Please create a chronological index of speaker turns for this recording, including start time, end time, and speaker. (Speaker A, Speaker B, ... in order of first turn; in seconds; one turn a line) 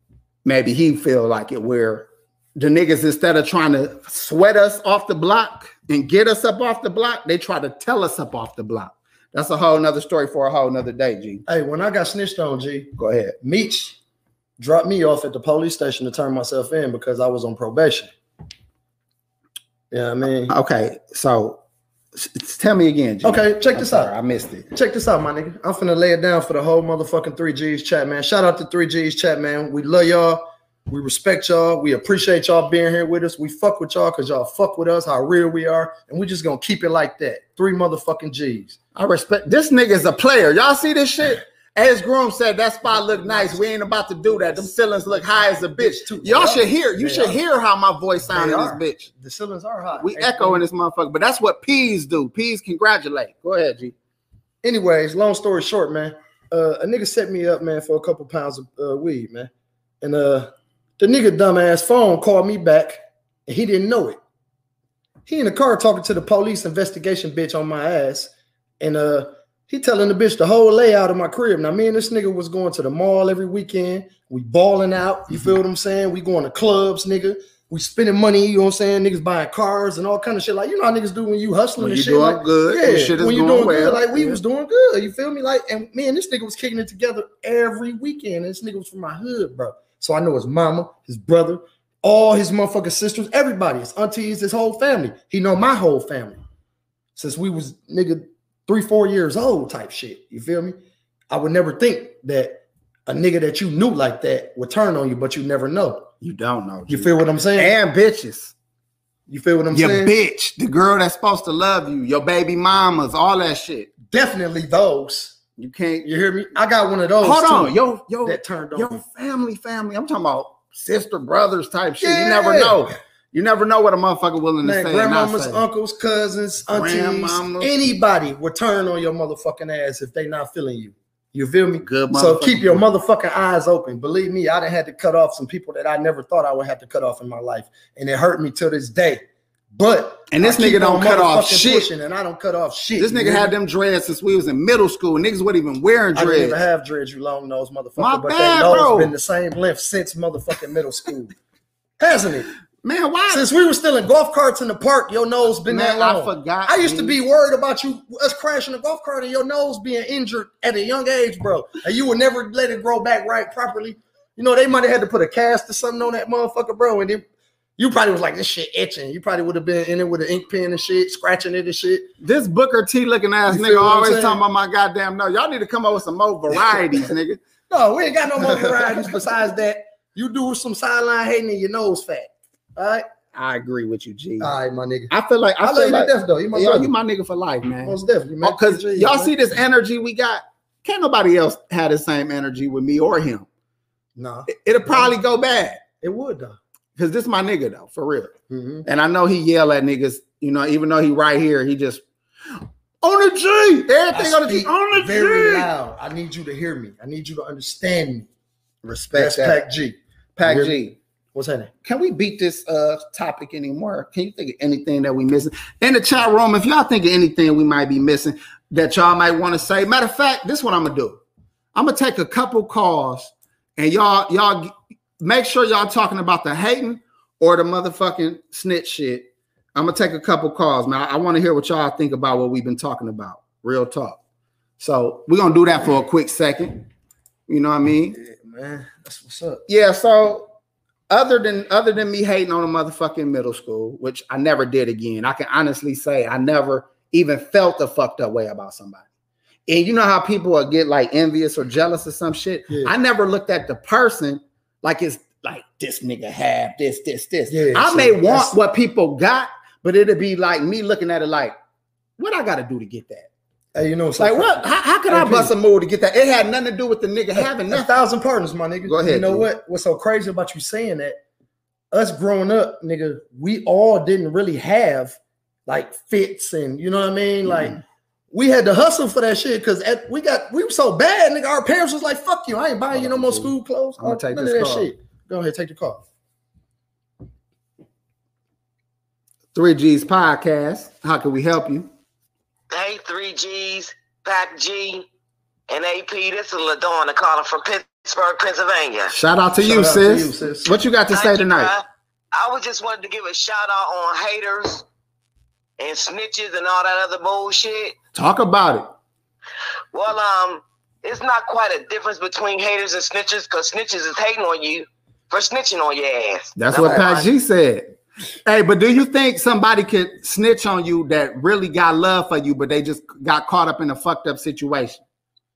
Speaker A: 0.4-11.4
Speaker B: 11.5-14.0
Speaker A: 13.0-13.3
Speaker B: 14.6-18.1
Speaker B: 19.9-20.5
Speaker A: 20.5-21.6
Speaker A: 22.1-24.7
Speaker B: 23.2-24.1
Speaker B: 24.7-38.8
Speaker A: 38.9-49.1
Speaker B: 42.8-43.7
Speaker B: 44.3-47.4
Speaker B: 48.2-50.6
Speaker A: 49.9-53.9
Speaker B: 54.6-59.5
Speaker B: 60.0-64.2
Speaker B: 65.2-96.4
Speaker A: 81.8-84.4
Speaker B: 97.2-100.8
Speaker B: 101.3-106.1
Speaker A: 106.2-108.5
Speaker B: 106.9-107.7
Speaker B: 109.3-110.1
Speaker A: 109.7-113.9
Speaker B: 114.1-115.4
Speaker A: 115.6-116.1
Speaker B: 116.0-119.0
Speaker A: 117.2-125.6
Speaker B: 122.0-122.9
Speaker B: 124.6-139.2
Speaker A: 126.7-127.7
Speaker A: 131.8-132.8
Speaker B: 139.7-143.5
Speaker A: 140.3-141.9
Speaker A: 143.0-146.6
Speaker B: 146.1-151.3
Speaker A: 148.0-149.1
Speaker B: 152.0-152.5
Speaker A: 152.8-153.4
Speaker B: 153.3-167.2
Speaker A: 155.6-157.2
Speaker B: 167.8-172.1
Speaker A: 172.2-177.4
Speaker B: 173.5-174.4
Speaker B: 177.7-183.1
Speaker A: 178.4-179.3
Speaker A: 183.3-184.5
Speaker B: 184.4-186.9
Speaker A: 185.1-193.5
Speaker B: 187.8-189.3
Speaker B: 194.2-195.1
Speaker A: 194.5-195.8
Speaker B: 196.0-196.6
Speaker A: 196.9-198.3
Speaker B: 198.5-198.8
Speaker A: 198.8-205.7
Speaker B: 204.1-208.3
Speaker A: 208.8-209.6
Speaker B: 209.1-210.8
Speaker A: 210.3-210.9
Speaker B: 211.3-211.7
Speaker A: 211.8-221.2
Speaker A: 221.7-234.2
Speaker A: 234.8-236.8
Speaker A: 237.5-238.2
Speaker B: 238.1-239.6
Speaker A: 239.7-240.5
Speaker A: 241.1-249.1
Speaker A: 249.7-261.5
Speaker B: 257.5-258.5
Speaker A: 262.2-263.3
Speaker B: 263.7-265.5
Speaker A: 264.2-267.9
Speaker B: 267.7-271.2
Speaker A: 268.8-269.5
Speaker B: 271.9-277.8
Speaker B: 278.3-286.0
Speaker A: 282.9-284.9
Speaker A: 289.5-291.9
Speaker C: 292.7-295.1
Speaker C: 295.7-299.1
Speaker A: 299.1-301.7
Speaker B: 299.6-300.7
Speaker C: 301.1-304.8
Speaker C: 305.8-307.9
Speaker A: 308.1-308.9
Speaker C: 309.9-317.3
Speaker A: 316.6-317.9
Speaker B: 316.8-317.1
Speaker A: 318.4-325.0